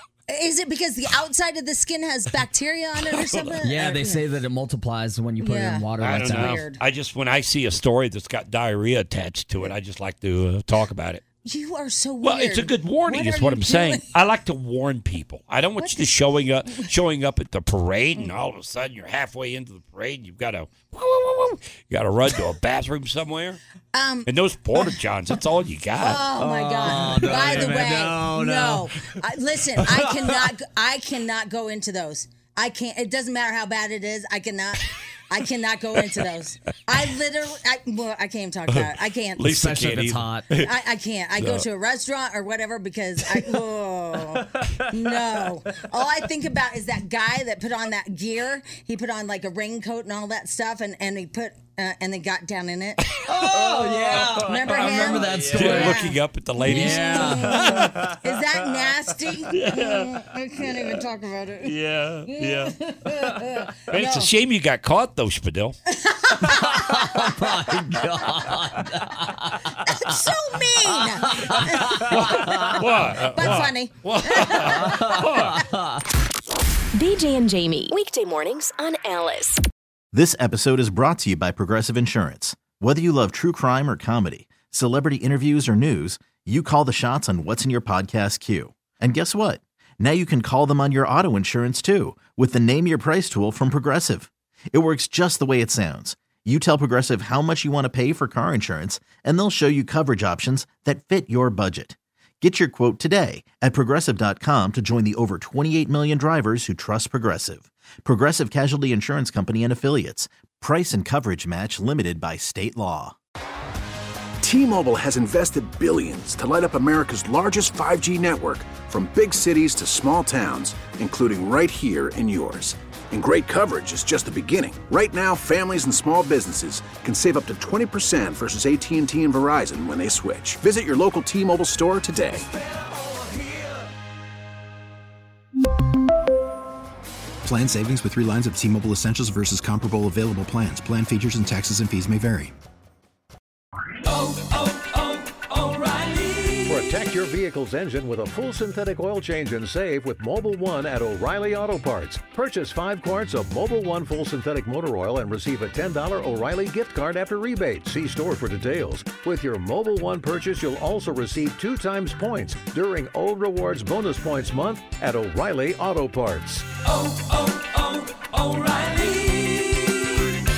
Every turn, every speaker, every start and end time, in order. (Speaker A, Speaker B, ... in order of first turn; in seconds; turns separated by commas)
Speaker A: 0.3-4.2, Speaker B: 3.0-3.6, Speaker C: 3.6-6.7, Speaker A: 5.4-6.8, Speaker B: 6.0-11.2, Speaker A: 11.4-14.0, Speaker B: 12.2-23.6, Speaker A: 15.8-16.9, Speaker A: 23.9-24.3, Speaker B: 24.2-26.2, Speaker A: 26.0-39.5, Speaker C: 26.4-29.1, Speaker C: 29.8-30.5, Speaker B: 38.7-40.7, Speaker C: 39.4-40.5, Speaker A: 40.6-64.3, Speaker B: 41.4-41.6, Speaker C: 44.5-44.9, Speaker C: 53.2-56.0, Speaker B: 53.3-54.4, Speaker B: 55.4-58.0, Speaker C: 56.6-58.2, Speaker B: 59.5-61.0, Speaker B: 61.6-65.7, Speaker A: 65.9-67.3, Speaker C: 66.5-69.6, Speaker A: 69.8-72.2, Speaker C: 71.3-72.8, Speaker B: 71.8-75.6, Speaker A: 73.3-75.2, Speaker C: 74.8-75.9, Speaker D: 77.0-79.6, Speaker E: 80.1-113.2, Speaker F: 114.4-132.4, Speaker G: 137.4-142.5, Speaker H: 146.6-166.7, Speaker B: 168.7-169.3